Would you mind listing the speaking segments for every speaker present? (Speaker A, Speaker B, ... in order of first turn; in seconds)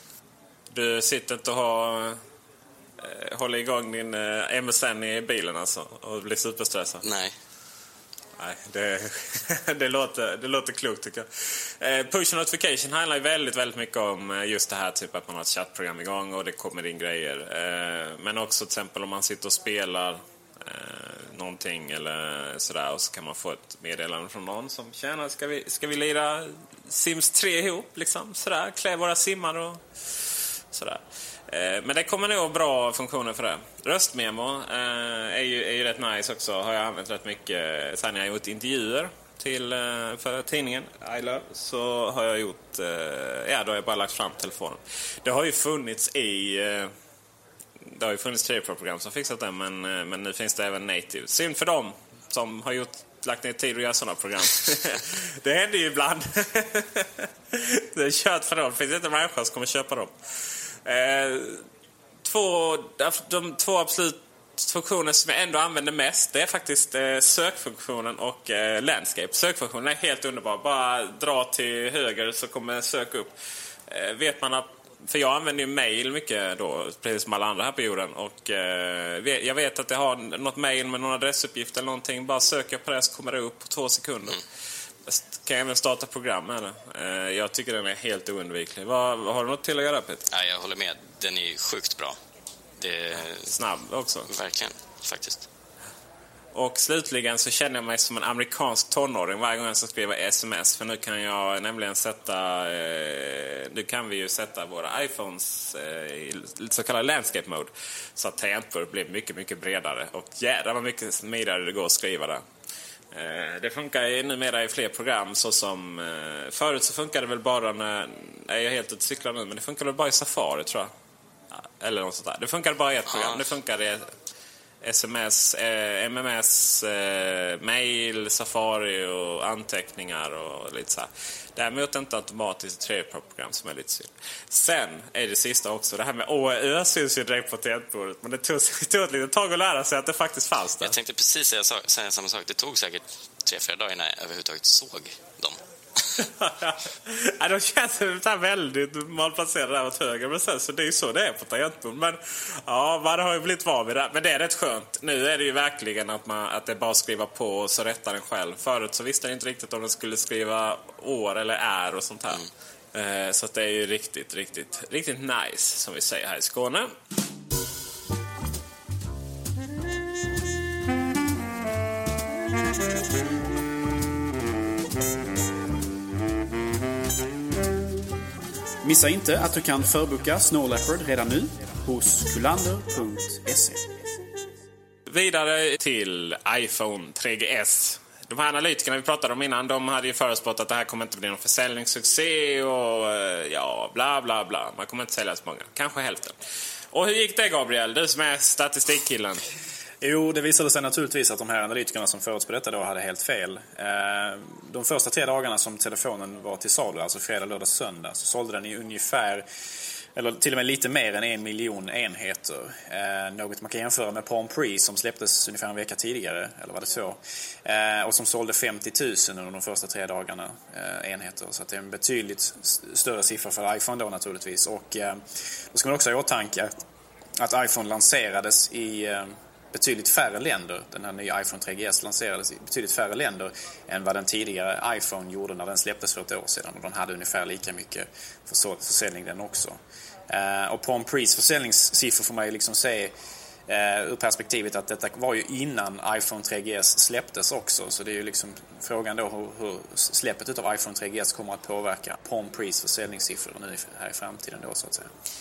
Speaker A: 0.7-2.2, 3.0-7.0, 8.4-29.8, 30.7-46.9, 47.8-60.1, 60.8-61.6, 62.2-73.3, 73.9-84.4, 85.1-90.2, 93.4-94.3, 96.5-112.4, 113.1-120.9, 121.5-124.1, 124.8-140.9, 146.2-162.4, 162.9-166.9, 185.1-196.4, 196.9-199.4
Speaker B: 7.0-7.3, 90.3-92.2, 92.8-93.5, 94.3-95.5, 123.1-123.4, 140.8-145.6
Speaker C: 178.8-183.8, 200.0-209.4, 210.2-225.2, 225.7-226.7, 227.4-239.8, 240.3-243.1, 243.7-255.1